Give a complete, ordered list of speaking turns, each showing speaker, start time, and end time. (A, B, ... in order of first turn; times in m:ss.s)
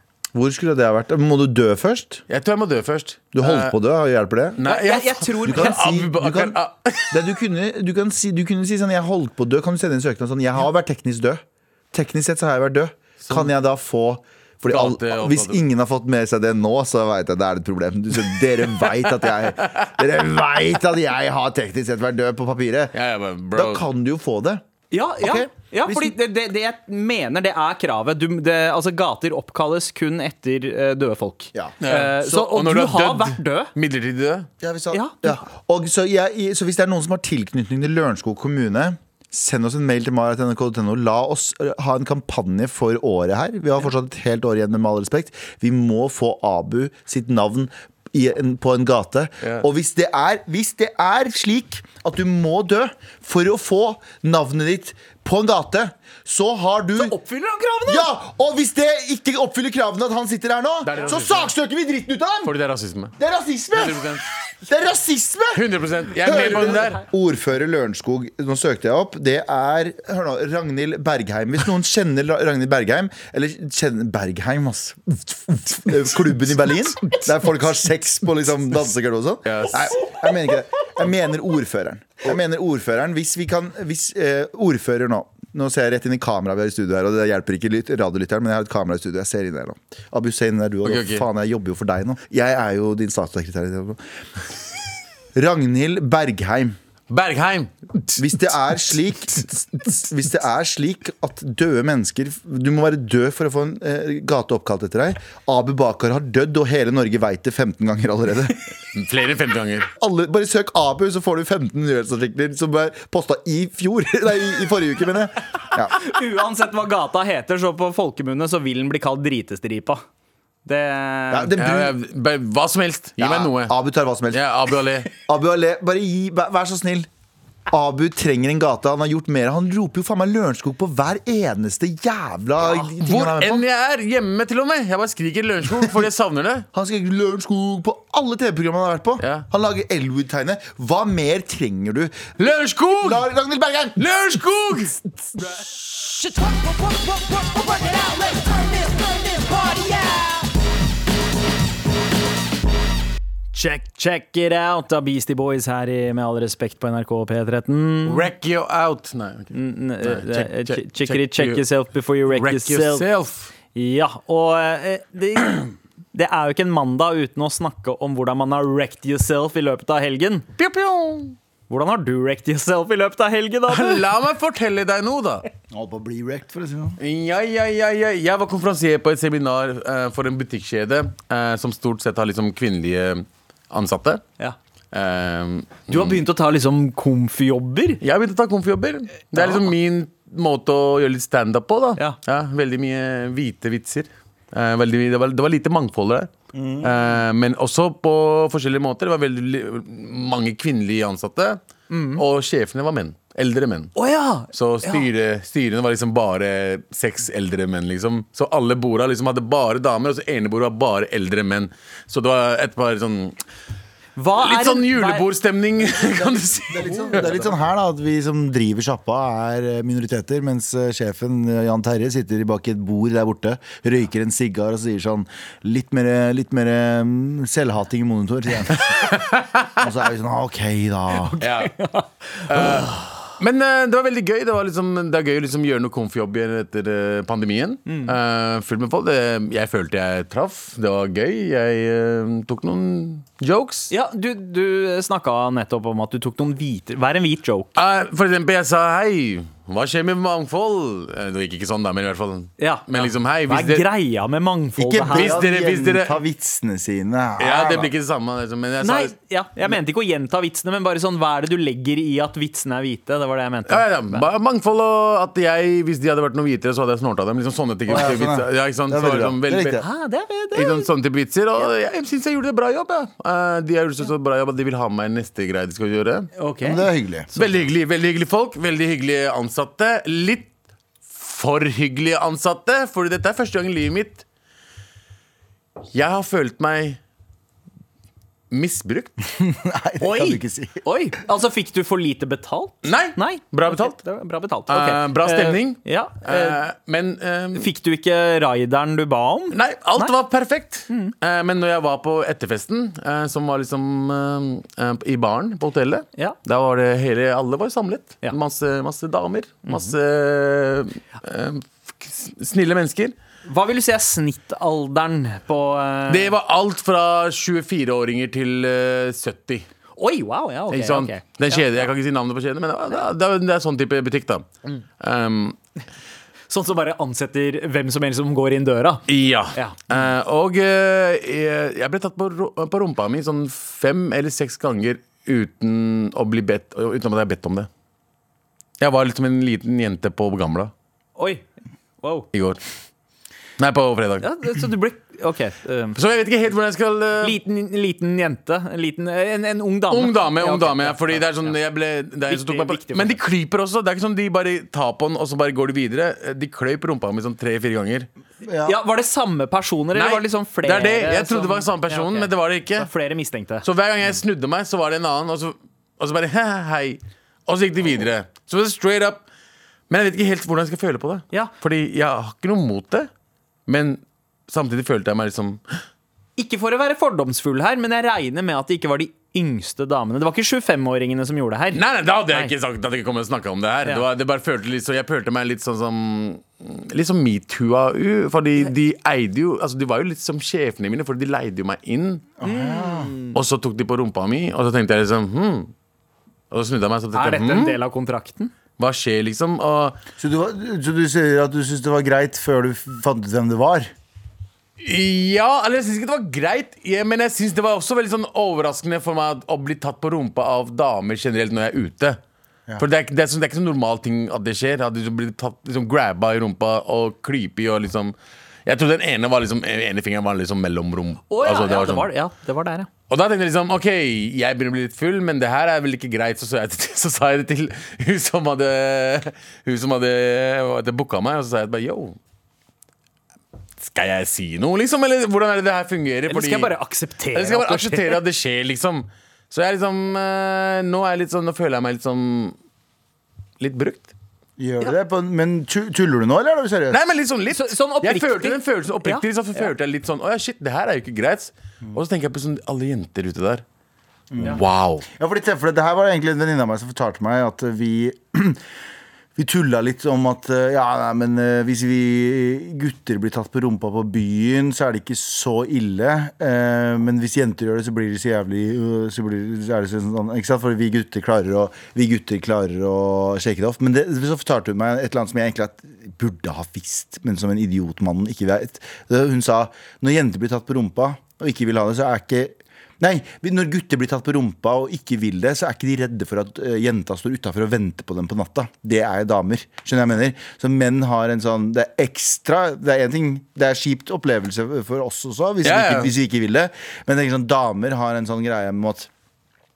0:00.3-0:02.2 A
0:02.3-0:03.7 B
0:03.3-0:04.6 A
0:04.6-0:07.2 B
0:04.6-0:05.8 C
0:05.4-0:06.6 A
0:07.1-0:22.9 A
0:13.2-0:13.5 B
0:14.7-0:15.6 B
0:19.6-0:19.9 B
0:22.9-0:23.8 B
0:23.5-0:24.6 A
0:24.9-0:33.7 C
0:25.2-0:26.1 A
0:31.8-0:34.5 B
0:34.6-0:57.2 A
0:34.9-0:35.4 C
0:57.0-0:58.1 C
0:57.8-1:02.5 A
1:00.8-1:01.5 B
1:02.4-1:03.1 B
1:03.2-1:05.7 A
1:03.7-1:04.2 B
1:05.5-1:07.0 B
1:06.2-1:34.0 A
1:19.4-1:19.9 B
1:30.8-1:31.2 B
1:35.3-1:36.8 A
1:37.1-1:38.3 B
1:38.2-1:48.6 A
1:48.9-1:49.9 B
1:50.0-1:56.0 A
1:56.0-2:00.0 C
2:00.6-2:01.5 C
2:01.3-2:01.9 A
2:01.6-2:03.7 B
2:03.2-2:04.4 A
2:04.3-2:05.1 B
2:05.1-2:07.1 A
2:07.7-2:13.6 A
2:12.7-2:16.7 B
2:16.7-2:22.4 A
2:19.2-2:19.4 B
2:22.4-2:23.3 B
2:23.0-2:24.0 A
2:24.0-2:25.8 B
2:26.4-2:30.4 B
2:33.5-2:38.3 C
2:38.0-2:41.6 B
2:39.5-2:43.0 C
2:42.3-2:43.5 B
2:43.7-2:50.4 C
2:50.6-2:51.4 B
2:51.7-2:54.0 C
2:53.7-2:55.4 B
2:55.7-2:57.0 A
2:57.0-3:04.2 B
3:04.9-3:06.2 B
3:05.9-3:08.0 C
3:08.0-3:21.6 B
3:09.4-3:09.7 C
3:16.5-3:16.9 A
3:21.9-3:22.2 C
3:22.2-3:23.9 B
3:23.9-3:25.1 C
3:24.5-3:33.4 B
3:34.2-3:35.2 C
3:34.4-3:37.4 B
3:35.9-3:49.1 A
3:48.8-3:49.8 B
3:49.8-3:51.4 A
3:51.4-3:51.7 B
3:51.5-3:53.1 C
3:52.5-4:03.9 B
3:57.9-3:58.1 C
4:03.9-4:07.7 C
4:07.8-4:13.8 B
4:12.6-4:15.3 C
4:14.8-4:17.9 A
4:15.1-4:16.2 B
4:17.4-4:19.1 B
4:18.8-4:24.2 C
4:23.7-4:29.8 B
4:27.9-4:29.8 A
4:29.8-4:30.9 C
4:30.5-4:36.3 B
4:36.4-4:37.5 C
4:36.6-4:37.3 A
4:37.3-4:40.5 B
4:41.1-4:44.2 B
4:45.9-4:47.0 B
4:48.5-4:49.1 B
4:49.4-4:50.8 A
4:50.0-4:56.6 C
4:52.8-4:54.0 B
4:54.7-4:57.7 B
4:57.5-5:00.1 C
4:59.5-5:13.2 B
5:00.9-5:01.1 C
5:09.6-5:09.9 C
5:13.4-5:16.3 C
5:16.1-5:19.7 B
5:20.0-5:21.9 C
5:20.7-5:24.5 B
5:25.0-5:25.6 B
5:26.5-5:29.8 C
5:29.1-5:37.7 B
5:38.8-5:40.7 B
5:41.2-5:41.4 C
5:42.0-5:42.3 C
5:42.3-5:42.6 B
5:43.6-5:44.3 B
5:44.2-5:46.0 C
5:46.0-5:47.4 B
5:47.2-5:51.5 C
5:49.9-5:58.1 B
5:52.3-5:53.2 C
5:58.4-5:58.8 A
5:58.6-6:03.6 C
5:59.9-6:02.9 B
6:03.6-6:09.2 B
6:09.9-6:13.1 B
6:13.7-6:15.6 B
6:16.4-6:22.5 C
6:21.7-6:32.3 B
6:32.4-6:33.1 A
6:32.4-6:33.4 C
6:33.3-6:35.7 B
6:36.5-6:37.8 B
6:37.1-6:38.5 C
6:38.8-6:40.0 B
6:40.2-6:43.9 A
6:44.8-6:52.2 B
6:52.8-6:58.1 B
6:58.6-7:02.1 B
7:01.3-7:02.9 C
7:03.1-7:12.2 B
7:13.8-7:16.7 B
7:16.3-7:18.2 C
7:17.3-7:22.6 B
7:23.6-7:24.1 B
7:24.6-7:27.0 A
7:26.9-7:33.6 B
7:27.5-7:29.7 C
7:34.3-7:38.6 A
7:34.4-7:35.0 B
7:39.4-8:19.1 A
8:15.6-8:16.1 B